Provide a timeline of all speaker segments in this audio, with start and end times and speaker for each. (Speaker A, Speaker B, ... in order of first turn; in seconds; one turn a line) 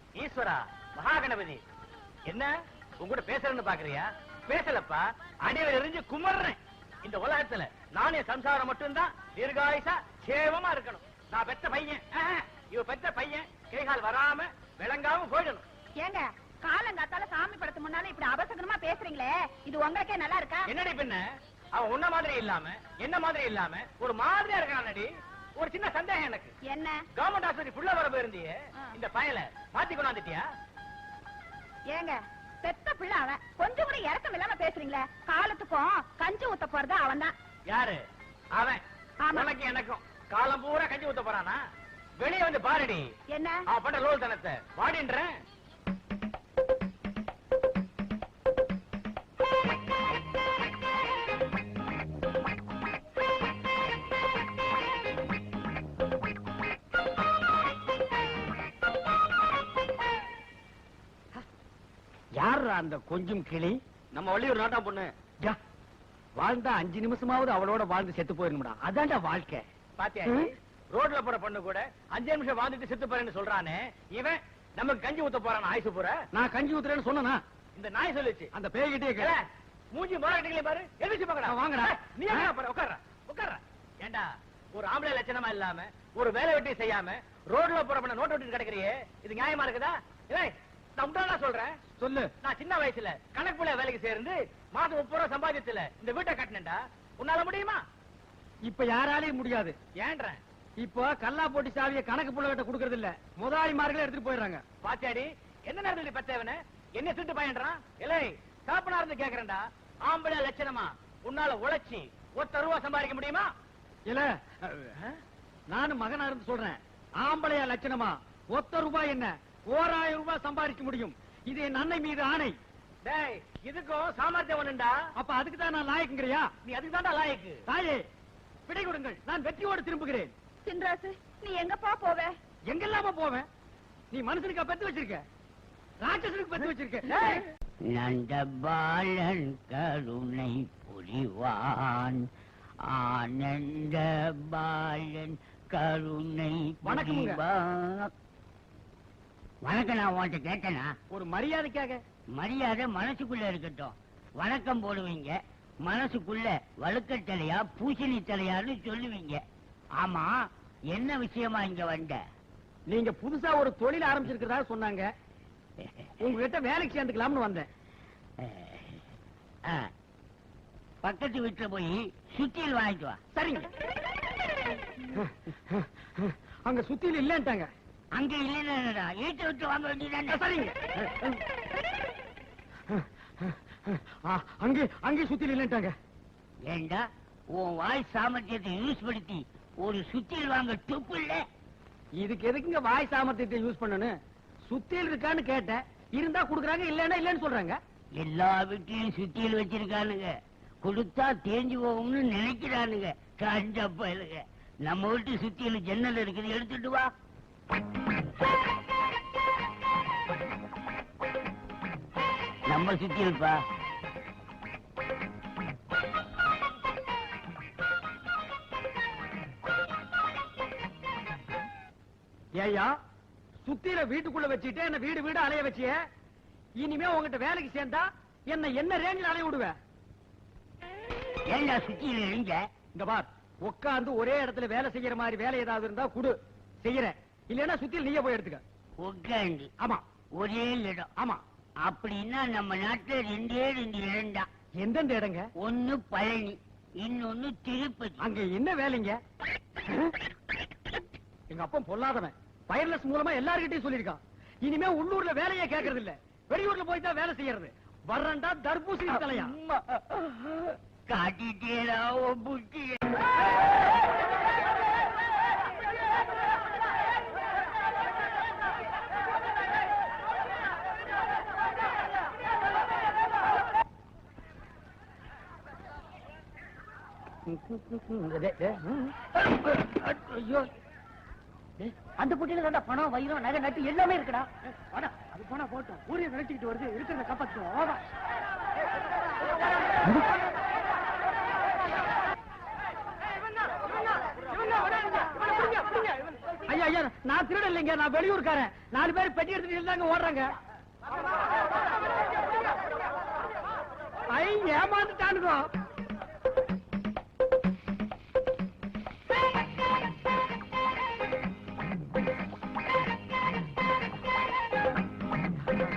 Speaker A: 0.1-1.6
Speaker A: 2.2-15.6
Speaker B: 16.0-20.7
Speaker A: 20.7-21.2
Speaker A: 21.7-26.5
Speaker B: 26.6-27.0
Speaker A: 27.1-30.4
Speaker B: 31.9-37.3
Speaker A: 37.7-38.0
Speaker A: 38.5-38.8
Speaker B: 39.2-39.5
Speaker A: 39.3-41.6
Speaker A: 42.2-43.0
Speaker B: 43.3-43.6
Speaker A: 43.7-45.3
Speaker C: 62.4-64.7
Speaker A: 64.5-65.0
Speaker C: 66.4-69.6
Speaker A: 70.0-76.2
Speaker C: 76.3-77.4
Speaker A: 77.8-78.5
Speaker C: 78.5-79.3
Speaker A: 79.2-91.8
Speaker C: 81.4-82.5
Speaker C: 92.0-92.3
Speaker A: 92.4-97.8
Speaker C: 98.6-99.8
Speaker A: 100.0-100.4
Speaker C: 100.8-104.6
Speaker A: 104.8-113.5
Speaker C: 114.1-114.9
Speaker C: 115.7-122.5
Speaker A: 123.0-125.0
Speaker C: 125.2-126.5
Speaker A: 126.6-127.6
Speaker C: 127.7-128.0
Speaker C: 128.7-130.3
Speaker B: 130.7-132.3
Speaker C: 132.7-133.5
Speaker C: 134.1-135.2
Speaker C: 136.0-137.4
Speaker D: 137.9-142.2
Speaker D: 142.9-148.1
Speaker C: 146.8-147.4
Speaker D: 149.6-150.9
Speaker C: 151.1-152.0
Speaker D: 152.3-159.4
Speaker D: 160.0-162.2
Speaker C: 162.9-165.1
Speaker C: 166.2-167.7
Speaker D: 168.4-169.0
Speaker D: 171.0-173.2
Speaker C: 173.3-173.7
Speaker C: 175.1-177.7
Speaker D: 178.2-180.4
Speaker C: 180.3-180.7
Speaker C: 182.9-185.9
Speaker D: 186.7-191.4
Speaker C: 192.2-194.1
Speaker C: 194.7-197.8
Speaker D: 198.2-207.1
Speaker D: 212.7-213.6
Speaker C: 222.6-222.9
Speaker C: 223.6-225.9
Speaker C: 226.8-229.8
Speaker D: 231.5-232.6
Speaker C: 232.9-238.6
Speaker D: 239.0-239.7
Speaker D: 240.4-241.1
Speaker C: 241.2-241.4
Speaker D: 241.8-244.5
Speaker C: 244.8-245.4
Speaker D: 245.6-248.2
Speaker C: 248.2-249.2
Speaker C: 251.5-259.6
Speaker D: 261.1-263.0
Speaker C: 277.5-280.7
Speaker C: 281.8-288.0
Speaker C: 296.7-300.5
Speaker C: 304.3-305.6